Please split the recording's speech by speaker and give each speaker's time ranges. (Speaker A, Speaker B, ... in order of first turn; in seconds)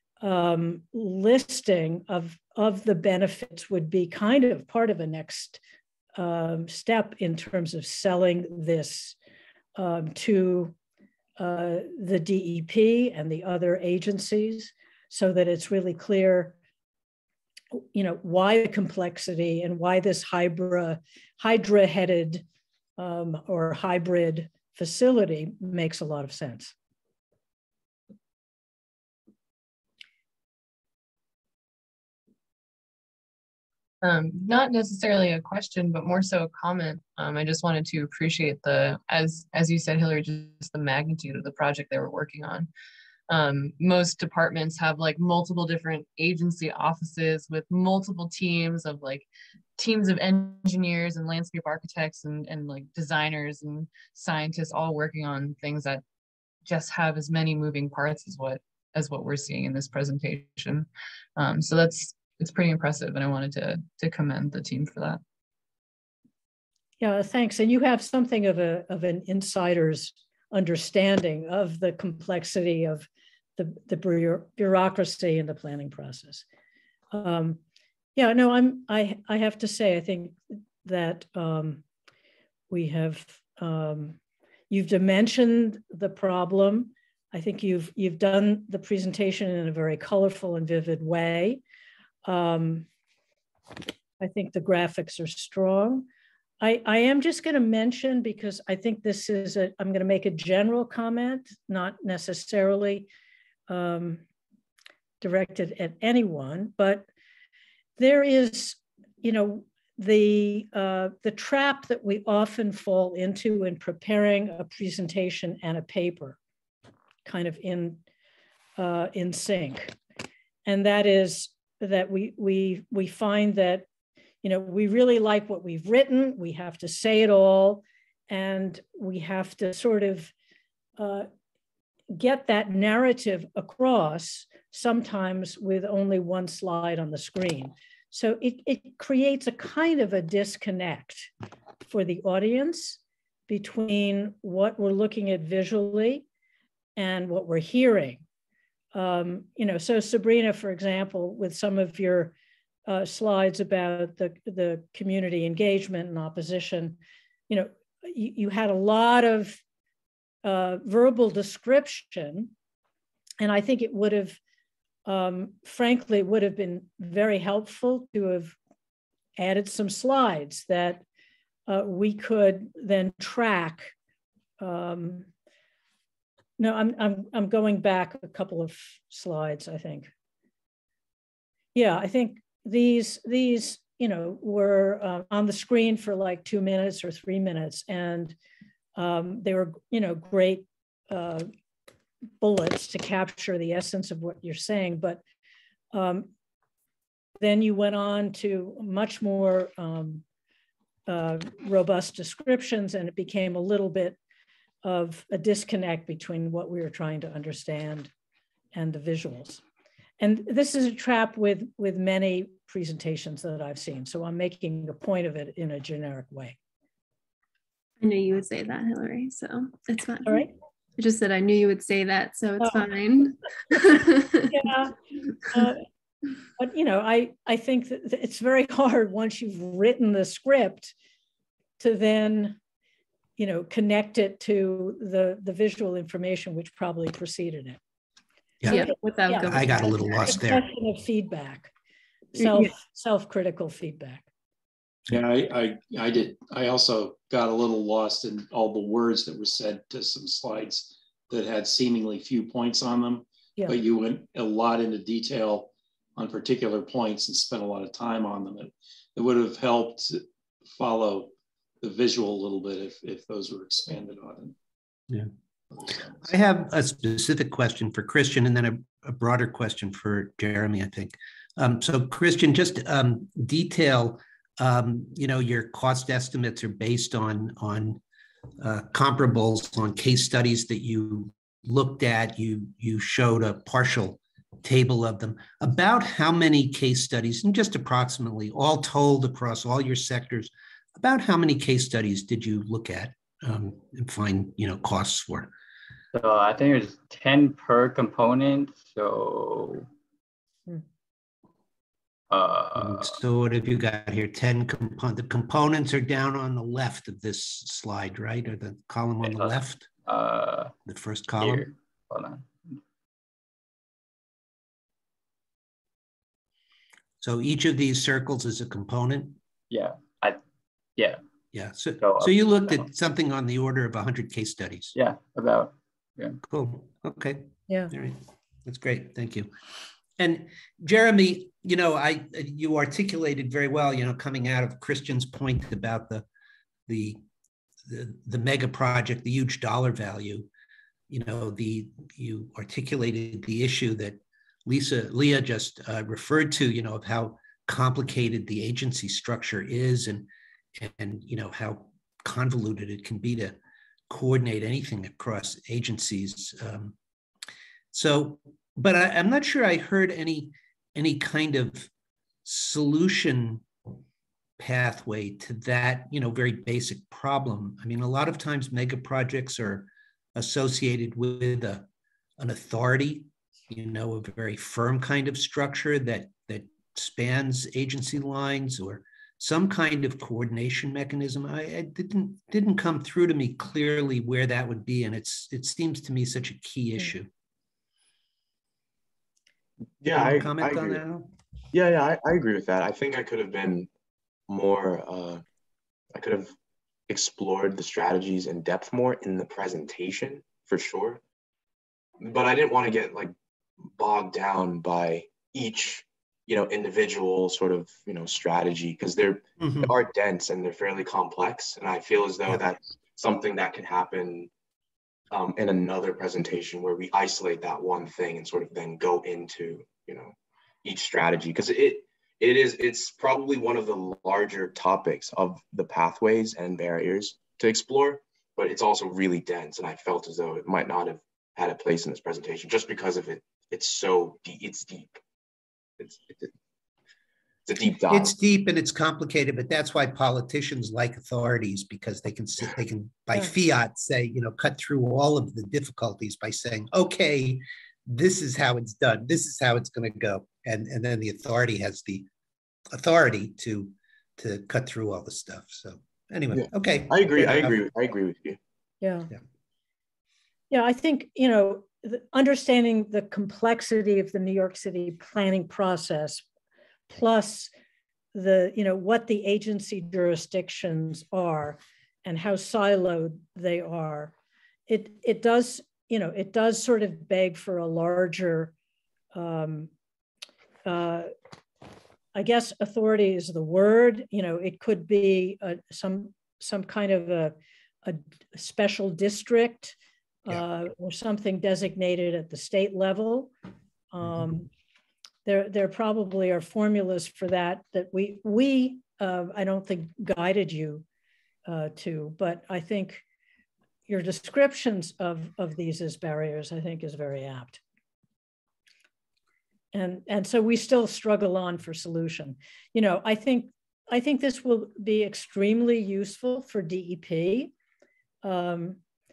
Speaker A: 0.2-5.6, 6.2-9.2, 9.8-10.8, 11.4-16.6, 17.8-22.4, 23.0-26.7, 67.0-76.4, 77.1-77.6, 78.2-81.8, 82.7-84.2, 84.7-91.6, 92.2-92.9, 94.2-96.1, 96.6-103.1, 103.7-104.2, 105.2-107.1, 108.0-116.4, 117.2-118.0, 118.8-120.0, 120.7-123.9, 124.4-130.3, 131.0-131.3, 132.1-141.3, 141.8-146.3, 147.0-148.2, 148.9-152.3, 152.9-159.6, 160.4-162.5, 163.4-164.4, 165.1-168.6, 169.4-171.0, 171.7-173.9, 174.6-175.3, 176.6-180.1, 181.7-188.4, 189.0-191.5, 192.4-195.2, 195.9-196.3, 197.4-200.2, 201.1-204.2, 204.8-208.1, 208.7-209.6, 210.2-216.6, 220.2-220.5, 222.6-222.9, 224.5-225.8, 226.6-230.9, 231.8-232.6, 233.4-237.8, 238.7-241.7, 242.3-244.3, 459.0-459.3, 460.7-466.4, 467.1-467.7, 468.3-474.3, 474.9-478.7, 479.3-479.9, 480.9-481.3, 482.3-490.0, 490.5-493.5, 494.1-494.7, 495.4-501.1, 501.7-503.2, 504.1-507.8, 509.9-517.7, 518.4-519.0
Speaker B: 34.0-42.7, 43.3-56.0, 56.6-65.2
Speaker C: 218.0-220.5, 221.0-224.5, 238.7-240.1, 242.4-242.7
Speaker D: 238.6-238.9, 239.4-240.7, 265.8-278.0, 278.6-295.5, 302.8-309.9, 310.9-311.7, 317.2-319.4, 321.5-324.9, 326.4-329.5, 330.2-336.3, 336.9-337.2, 337.9-340.5, 341.1-353.6, 354.1-357.0, 357.9-361.9, 362.4-363.6, 364.6-371.9, 372.4-387.3, 390.1-391.3, 409.6-409.9, 438.1-452.3, 452.9-457.8
Speaker E: 245.1-264.5
Speaker F: 296.1-299.9, 302.3-303.2, 309.2-310.7, 311.4-312.8, 319.7-320.4, 322.0-322.9, 324.9-326.4
Speaker G: 390.0-391.0, 391.7-393.9, 394.5-395.4, 396.1-396.5, 397.1-401.2, 402.2-403.3, 403.9-414.5, 415.3-435.2, 436.0-436.5, 437.7-438.3, 456.5-458.6